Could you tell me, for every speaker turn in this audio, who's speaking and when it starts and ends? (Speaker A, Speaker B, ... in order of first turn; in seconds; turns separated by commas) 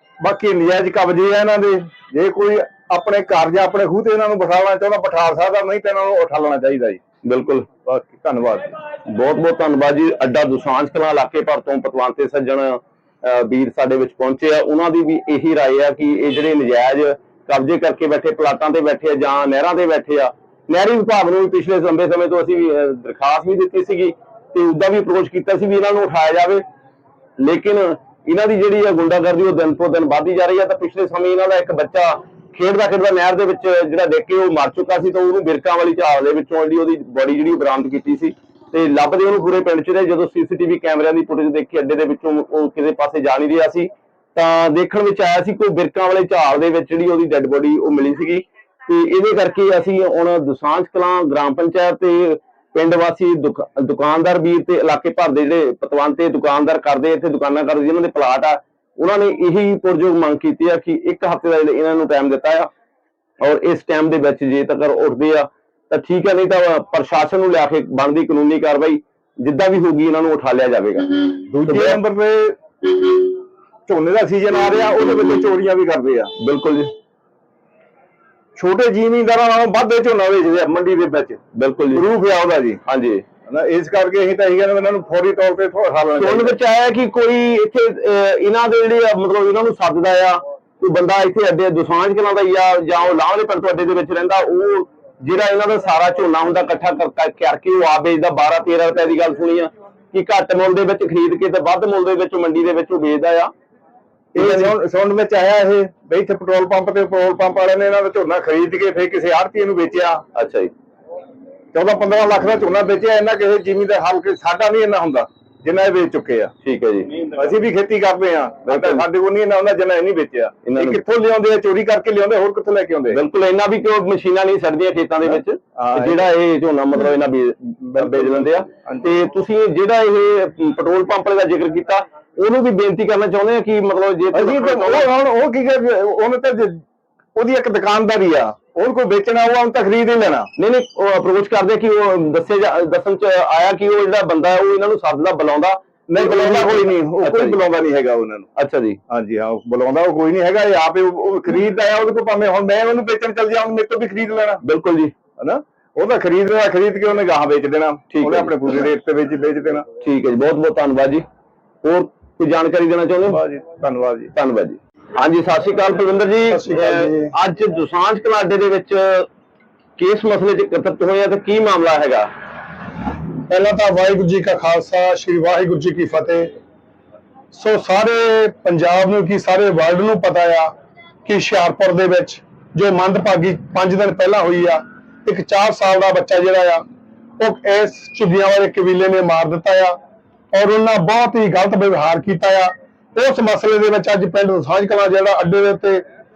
Speaker A: 0.2-7.0, Speaker B: 7.2-7.7, Speaker A: 7.8-8.7, Speaker B: 9.1-26.6, Speaker B: 27.4-62.7, Speaker B: 63.4-72.0, Speaker A: 71.5-73.2, Speaker A: 73.9-76.3, Speaker B: 76.4-76.9, Speaker A: 78.6-81.4, Speaker B: 81.6-82.1, Speaker A: 81.9-82.8, Speaker B: 82.9-83.2, Speaker A: 83.5-86.5, Speaker B: 86.2-103.5, Speaker A: 104.3-110.2, Speaker B: 104.4-104.8, Speaker B: 110.3-110.7, Speaker A: 111.7-116.5, Speaker B: 116.6-117.1, Speaker A: 117.4-123.2, Speaker B: 118.7-119.0, Speaker B: 120.7-121.0, Speaker B: 123.1-135.1, Speaker A: 125.8-126.2, Speaker A: 127.9-129.1, Speaker A: 134.3-136.8, Speaker A: 137.3-140.5, Speaker B: 140.6-147.6, Speaker A: 146.1-148.5, Speaker B: 148.6-149.0, Speaker A: 149.1-154.6, Speaker B: 154.6-155.1, Speaker A: 155.4-159.9, Speaker B: 158.1-158.6, Speaker B: 160.0-161.2, Speaker B: 161.8-163.4, Speaker A: 163.3-164.3, Speaker B: 164.3-169.3, Speaker C: 166.5-167.3, Speaker B: 170.0-172.3, Speaker C: 173.5-176.5, Speaker C: 177.5-180.7, Speaker C: 181.3-186.8, Speaker C: 187.4-190.0, Speaker C: 190.5-196.0